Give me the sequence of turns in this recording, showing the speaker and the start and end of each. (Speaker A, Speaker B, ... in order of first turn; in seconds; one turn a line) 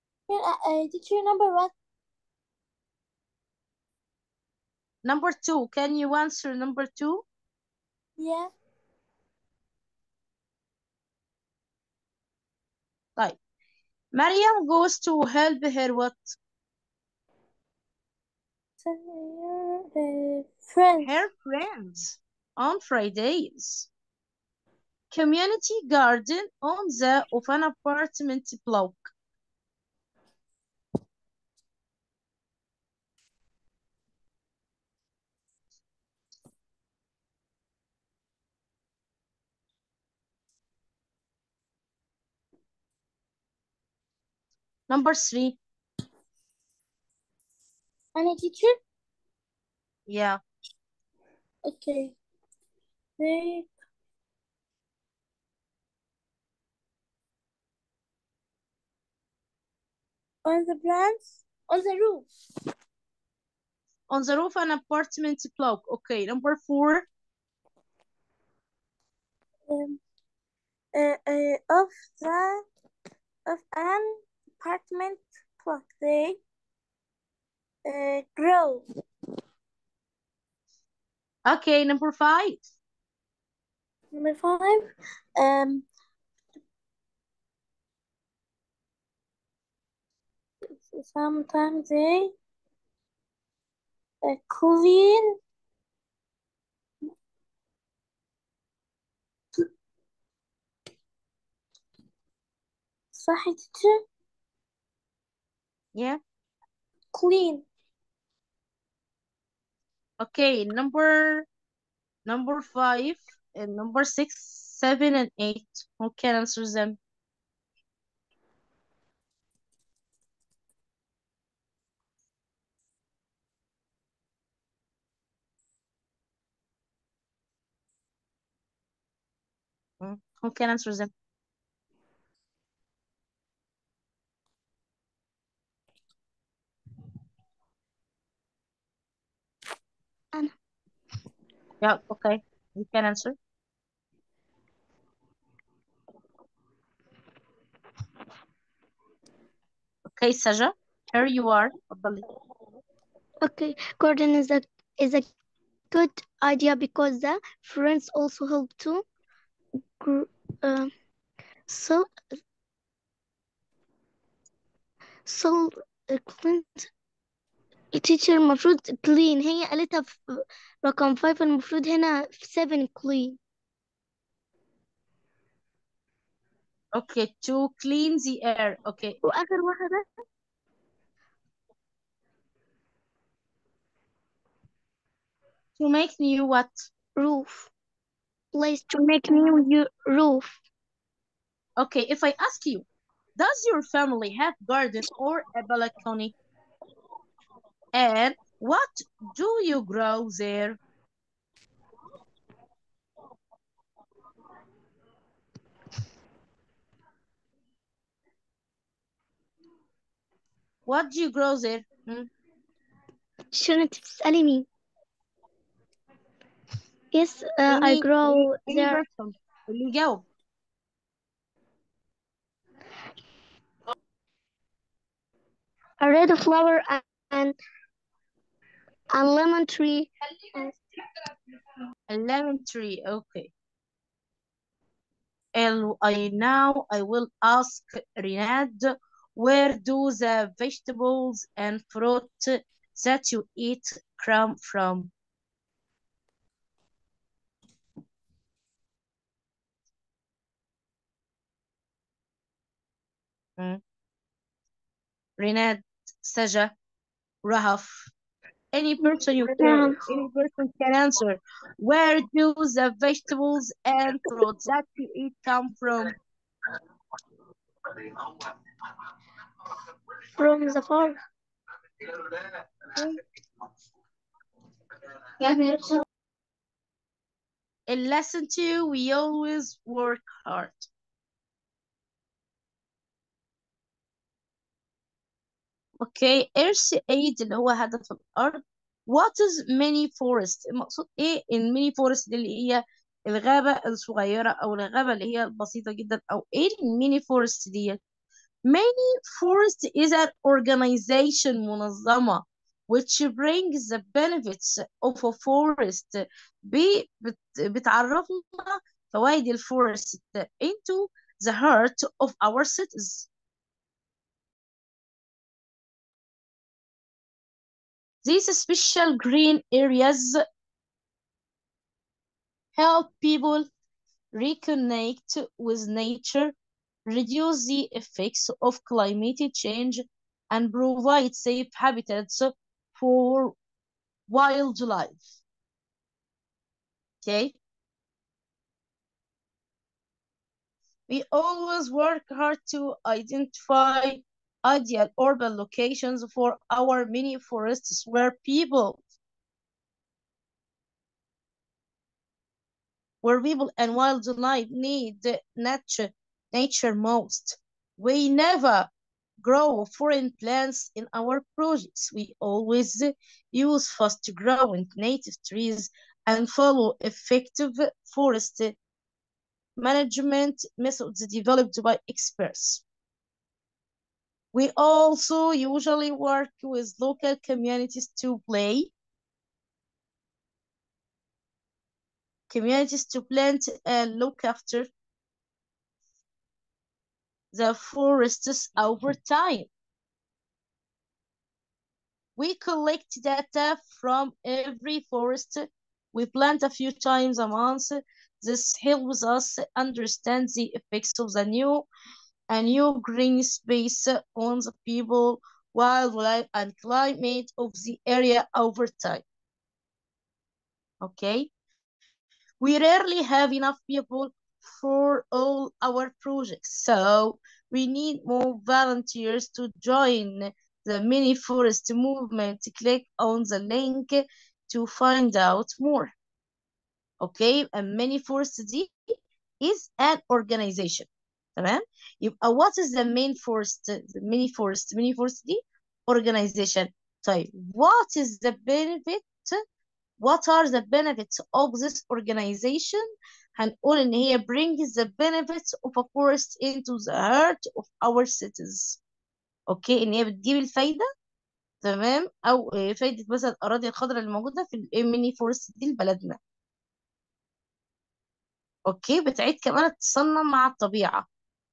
Speaker A: 0.3-1.7
Speaker B: 5.0-7.2
Speaker A: 8.2-8.5
Speaker B: 14.1-16.4
Speaker A: 18.8-21.1
Speaker B: 21.0-23.9
Speaker B: 25.1-29.1
Speaker B: 44.9-45.6
Speaker A: 48.1-48.8
Speaker B: 50.1-50.4
Speaker A: 51.6-52.1
Speaker A: 53.2-53.7
Speaker A: 60.4-62.3
Speaker B: 64.1-67.1
Speaker A: 69.7-70.0
Speaker A: 70.9-72.6
Speaker A: 73.5-76.4
Speaker A: 77.8-78.8
Speaker B: 81.5-82.6
Speaker A: 84.1-85.8
Speaker A: 90.8-92.3
Speaker A: 94.2-95.3
Speaker A: 103.1-104.0
Speaker A: 107.1-107.6
Speaker B: 110.2-111.5
Speaker B: 112.3-117.0
Speaker B: 130.0-131.1
Speaker B: 141.8-143.4
Speaker B: 150.1-152.2
Speaker C: 153.4-155.3
Speaker C: 155.9-159.0
Speaker C: 160.0-160.9
Speaker C: 161.7-162.1
Speaker C: 165.2-166.9
Speaker C: 167.9-173.4
Speaker B: 176.9-179.2
Speaker C: 179.2-180.0
Speaker B: 185.8-186.8
Speaker C: 187.2-187.7
Speaker C: 188.5-190.5
Speaker B: 191.8-192.8
Speaker B: 193.4-196.3
Speaker B: 197.9-200.8
Speaker B: 210.8-212.3
Speaker C: 213.5-214.7
Speaker C: 217.1-219.0
Speaker B: 217.7-220.2
Speaker C: 226.0-227.6
Speaker C: 229.1-230.8
Speaker B: 232.1-233.5
Speaker B: 235.5-245.1
Speaker B: 255.4-256.7
Speaker B: 257.4-258.1
Speaker B: 258.7-266.1
Speaker C: 259.0-260.0
Speaker C: 270.4-271.1
Speaker C: 275.4-276.0
Speaker B: 277.9-280.9
Speaker B: 286.0-298.0
Speaker B: 298.7-313.3
Speaker B: 318.2-320.4
Speaker B: 322.7-323.7
Speaker B: 324.3-326.5
Speaker B: 327.1-333.6
Speaker B: 334.3-335.3
Speaker B: 337.2-337.5
Speaker B: 341.1-349.0
Speaker B: 353.2-358.9
Speaker B: 359.4-368.7
Speaker B: 369.8-372.8
Speaker B: 374.5-378.9
Speaker B: 382.5-384.9
Speaker B: 387.5-389.7
Speaker B: 392.4-401.8
Speaker B: 402.5-409.2
Speaker B: 411.0-411.5
Speaker B: 412.6-426.1
Speaker B: 427.2-428.9
Speaker B: 429.6-439.6
Speaker B: 440.2-443.0
Speaker B: 443.6-449.0
Speaker B: 449.7-451.1
Speaker B: 451.8-456.4
Speaker B: 458.9-461.2